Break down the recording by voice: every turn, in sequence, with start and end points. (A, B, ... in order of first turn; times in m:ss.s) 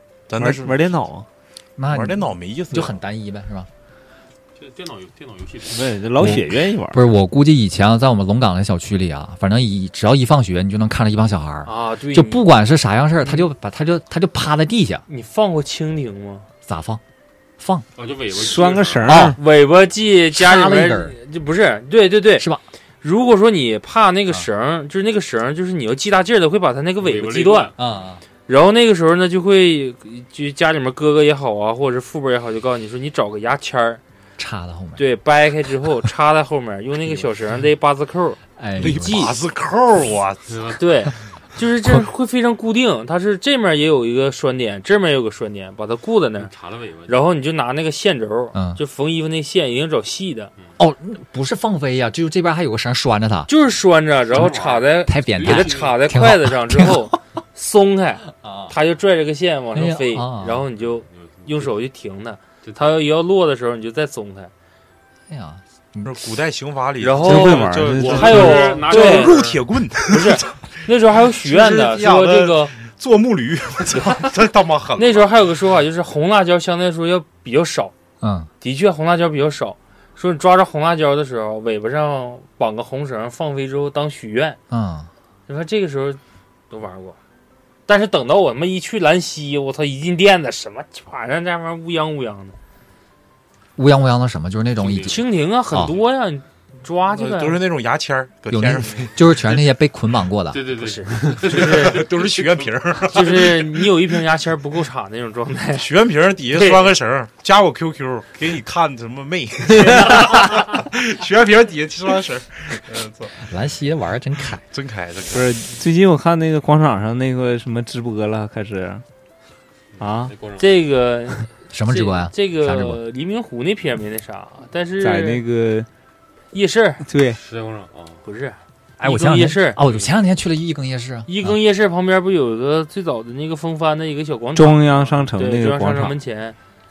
0:00.3-0:00.9 A
0:00.4-0:01.3 B
0:01.8-0:03.7 C
0:01.9-0:03.0 A
0:04.6-0:06.0 D
0:05.7-0:07.0 B
0:06.2-0:15.0 C
0:11.6-0:12.4 E
0:15.1-0:16.5 E
0:16.6-0:17.0 C
0:17.6-0:17.8 C
0:18.0-0:19.2 D
0:18.3-0:19.4 B
0:19.1-0:19.4 C
0:19.2-0:22.4 E
0:20.3-0:21.1 C
0:22.4-0:22.6 C
0:23.0-0:27.7 E
0:27.0-0:27.8 D
0:27.8-0:28.2 C
0:28.5-0:34.0 E
0:34.4-0:35.0 C
0:35.0-0:39.3 E
0:38.6-0:39.3 C
0:38.8-0:40.6 A
0:40.5-0:40.8 D
0:40.8-0:46.5 E
0:46.4-0:47.2 D
0:47.1-0:50.5 E
0:48.5-0:48.8 C
0:50.8-0:53.5 C
0:53.5-1:04.5 E
0:54.3-0:56.0 D
0:55.1-0:57.0 C
0:58.4-0:58.7 C
0:59.7-1:00.6 C
1:00.8-1:01.7 D
1:02.6-1:02.9 D
1:05.3-1:06.1 C
1:06.0-1:10.5 A
1:07.0-1:09.5 E
1:07.2-1:08.7 B
1:07.9-1:09.6 D
1:10.0-1:12.7 E
1:11.3-1:15.3 A
1:15.0-1:17.9 E
1:18.2-1:18.5 C
1:18.6-1:24.6 E
1:24.7-1:25.1 C
1:25.5-1:27.2 E
1:27.9-1:32.6 E
1:33.8-1:35.9 C
1:34.8-1:35.2 D
1:35.0-1:37.6 E
1:37.1-1:39.1 A
1:38.5-1:40.6 C
1:40.5-1:42.7 D
1:40.8-1:42.1 E
1:41.4-1:43.9 A
1:43.1-1:45.9 E
1:45.8-1:53.4 A
1:46.5-1:46.9 E
1:49.8-1:50.3 E
1:53.4-1:54.6 C
1:54.6-1:55.6 A
1:55.3-1:59.0 B
2:00.0-2:00.3 B
2:00.2-2:00.7 D
2:00.6-2:05.4 E
2:01.7-2:03.0 C
2:05.0-2:05.9 B
2:06.5-2:07.0 E
2:07.0-2:07.4 B
2:07.3-2:08.2 D
2:08.2-2:09.8 E
2:09.0-2:11.5 C
2:09.8-2:10.1 D
2:11.3-2:16.6 E
2:14.6-2:16.2 B